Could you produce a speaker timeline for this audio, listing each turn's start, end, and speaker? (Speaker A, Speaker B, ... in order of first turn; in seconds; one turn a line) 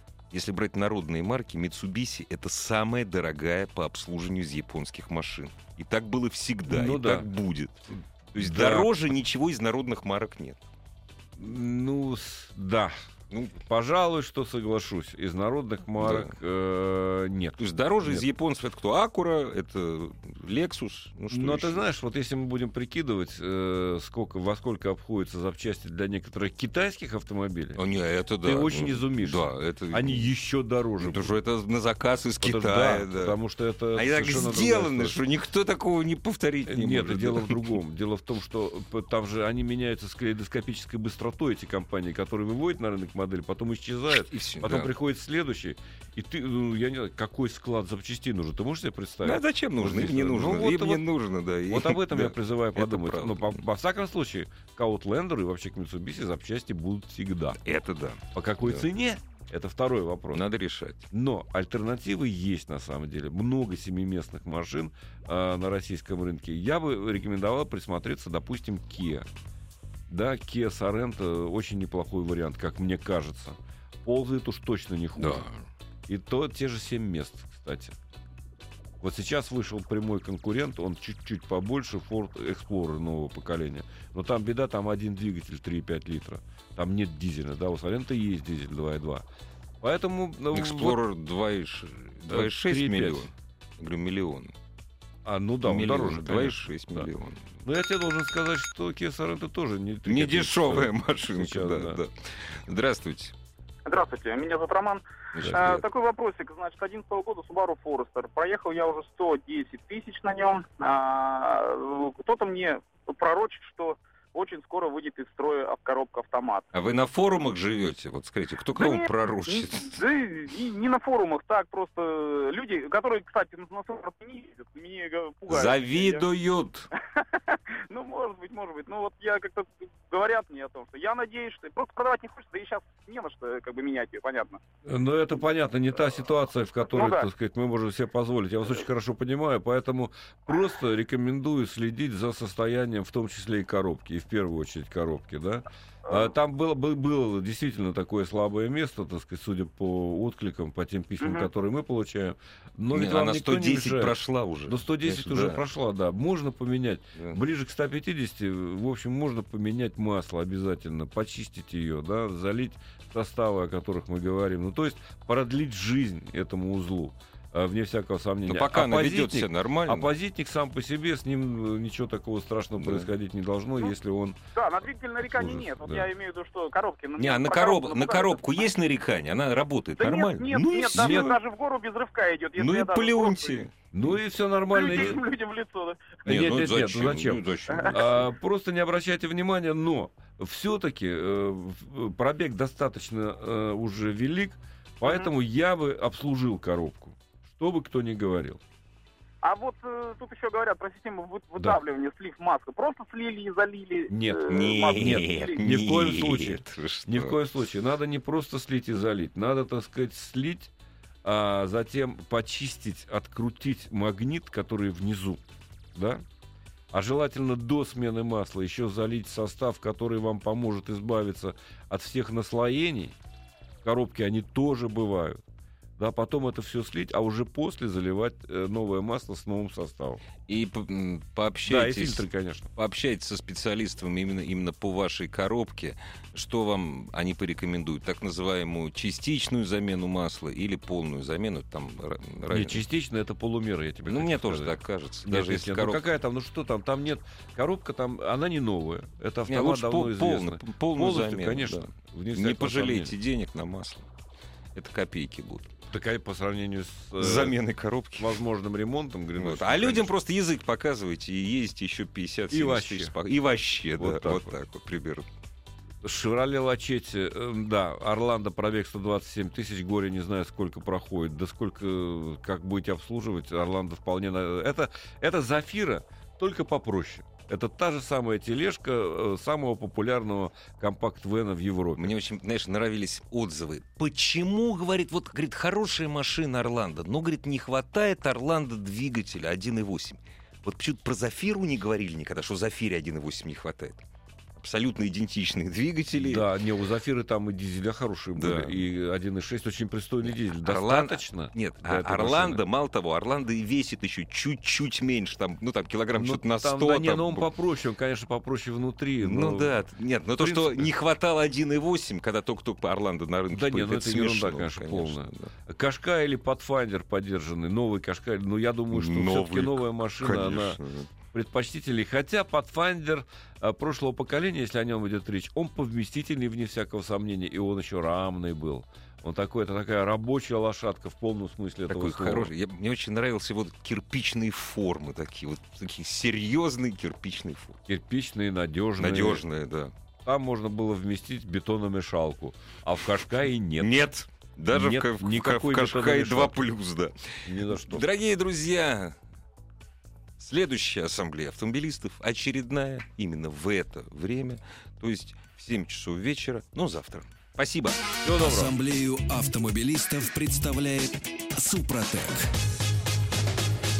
Speaker A: 0.3-10.6
Speaker B: 6.7-7.3
Speaker B: 8.4-8.9
Speaker B: 11.4-12.9
Speaker B: 13.6-18.2
Speaker A: 16.0-16.3
Speaker A: 17.6-21.8
Speaker B: 21.3-27.8
Speaker A: 27.8-30.3
Speaker B: 28.4-31.4
Speaker A: 31.0-33.4
Speaker B: 32.4-35.2
Speaker A: 34.0-37.8
Speaker B: 36.7-51.0
Speaker A: 44.1-44.9
Speaker A: 49.2-53.6
Speaker B: 51.7-57.6
Speaker A: 57.6-58.9
Speaker B: 58.3-60.4
Speaker A: 60.3-61.1
Speaker B: 61.1-69.3
Speaker B: 70.1-75.5
Speaker A: 75.2-75.6
Speaker B: 76.1-78.0
Speaker B: 79.0-89.2
Speaker B: 89.8-91.0
Speaker A: 90.5-94.5
Speaker B: 92.3-93.3
Speaker B: 95.3-97.1
Speaker A: 95.7-97.4
Speaker B: 97.7-102.0
Speaker A: 100.1-103.3
Speaker C: 103.9-116.7
Speaker A: 105.4-105.8
Speaker A: 116.7-120.0
Speaker C: 118.8-126.2
Speaker A: 125.5-126.9
Speaker C: 127.9-134.6
Speaker B: 134.8-174.4
Speaker C: 136.9-137.3
Speaker A: 152.9-155.6
Speaker A: 168.5-170.1
Speaker A: 172.8-173.1
Speaker C: 174.6-178.6
Speaker B: 175.2-176.1
Speaker A: 177.2-181.4
Speaker C: 180.0-183.7
Speaker B: 180.9-181.3
Speaker A: 182.6-183.7
Speaker B: 183.9-185.2
Speaker C: 184.7-186.2
Speaker A: 186.2-188.2
Speaker B: 186.2-198.6
Speaker C: 199.4-205.6
Speaker B: 204.1-210.7
Speaker A: 204.5-207.4
Speaker B: 211.2-215.4
Speaker B: 215.9-216.2
Speaker B: 216.9-223.2
Speaker B: 223.8-225.4
Speaker B: 226.0-230.2
Speaker A: 230.5-242.8
Speaker B: 231.7-232.7
Speaker B: 242.5-253.1
Speaker A: 244.1-246.0
Speaker A: 249.5-254.1
Speaker A: 254.8-255.8
Speaker B: 255.9-257.6
Speaker A: 257.2-258.4
Speaker B: 258.2-260.1
Speaker A: 259.4-265.3
Speaker B: 262.5-263.1
Speaker B: 264.0-264.5
Speaker B: 266.0-282.1
Speaker A: 282.0-294.0
Speaker A: 294.6-296.5
Speaker B: 296.1-302.6
Speaker A: 298.4-298.8
Speaker A: 300.3-307.5
Speaker B: 306.1-309.8
Speaker A: 309.2-315.5
Speaker B: 310.4-310.9
Speaker B: 313.5-320.8
Speaker A: 318.9-321.1
Speaker B: 321.3-332.5
Speaker A: 331.9-337.8
Speaker B: 337.9-339.4
Speaker A: 339.0-339.9
Speaker B: 340.2-344.0
Speaker A: 343.8-349.2
Speaker B: 344.7-346.6
Speaker B: 347.4-348.1
Speaker A: 350.4-358.0
Speaker B: 358.2-358.7
Speaker D: 358.4-362.5